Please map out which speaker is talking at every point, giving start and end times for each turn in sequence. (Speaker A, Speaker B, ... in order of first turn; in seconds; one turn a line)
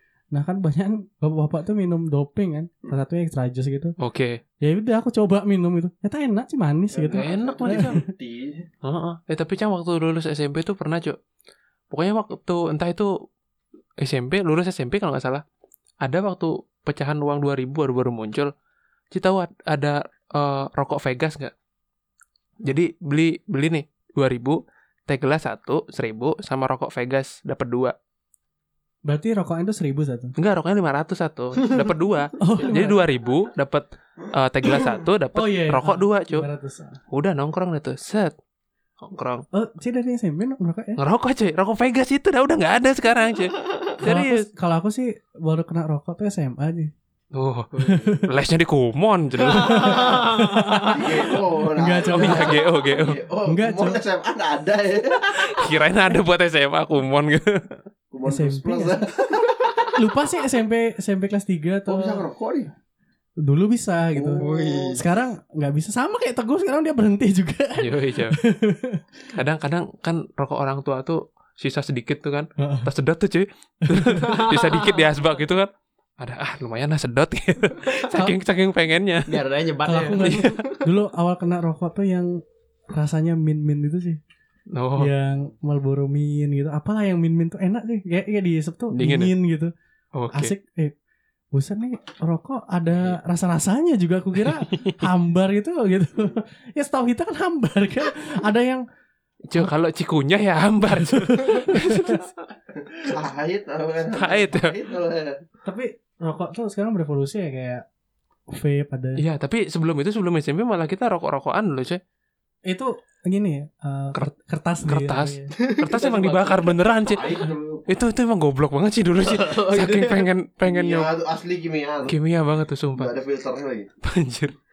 Speaker A: 0.3-3.9
Speaker B: 4.0-4.4
Speaker A: 4.6-8.0
Speaker C: 6.9-8.7
Speaker B: 7.1-8.0
Speaker B: 8.8-11.2
Speaker B: 11.9-13.2
Speaker B: 14.0-15.4
Speaker B: 16.0-18.5
Speaker B: 19.1-21.5
Speaker B: 22.6-27.9
Speaker A: 29.1-30.3
Speaker B: 30.4-36.5
Speaker A: 32.4-33.0
Speaker A: 35.3-37.0
Speaker B: 37.1-38.3
Speaker B: 39.0-39.4
Speaker A: 39.5-41.0
Speaker B: 41.0-44.5
Speaker A: 44.0-46.9
Speaker B: 47.3-50.2
Speaker D: 47.7-48.2
Speaker A: 47.9-48.3
Speaker D: 49.4-50.8
Speaker A: 49.5-52.6
Speaker C: 50.9-55.7
Speaker B: 52.1-53.2
Speaker A: 53.5-54.0
Speaker B: 55.3-57.8
Speaker C: 58.1-59.9
Speaker A: 58.2-59.0
Speaker A: 59.9-62.2
Speaker C: 61.9-62.7
Speaker A: 63.4-69.0
Speaker C: 64.1-65.0
Speaker D: 64.4-65.0
Speaker B: 67.8-68.4
Speaker B: 69.3-79.5
Speaker A: 72.6-72.9
Speaker A: 73.9-74.3
Speaker D: 74.2-75.2
Speaker A: 78.1-78.3
Speaker D: 79.3-80.9
Speaker A: 79.8-84.2
Speaker B: 80.1-80.6
Speaker B: 84.7-85.1
Speaker A: 85.0-89.7
Speaker B: 88.9-89.3
Speaker B: 90.1-90.5
Speaker A: 90.3-90.9
Speaker A: 91.5-98.8
Speaker B: 94.4-95.0
Speaker B: 99.5-102.3
Speaker A: 101.0-102.2
Speaker C: 102.9-105.4
Speaker B: 104.1-104.7
Speaker A: 105.6-107.8
Speaker A: 108.5-109.2
Speaker B: 109.2-112.0
Speaker A: 112.7-115.5
Speaker B: 114.8-121.1
Speaker D: 115.5-116.9
Speaker C: 117.0-117.9
Speaker D: 119.2-120.3
Speaker C: 120.6-122.2
Speaker B: 122.0-123.1
Speaker C: 122.9-123.9
Speaker B: 124.0-124.5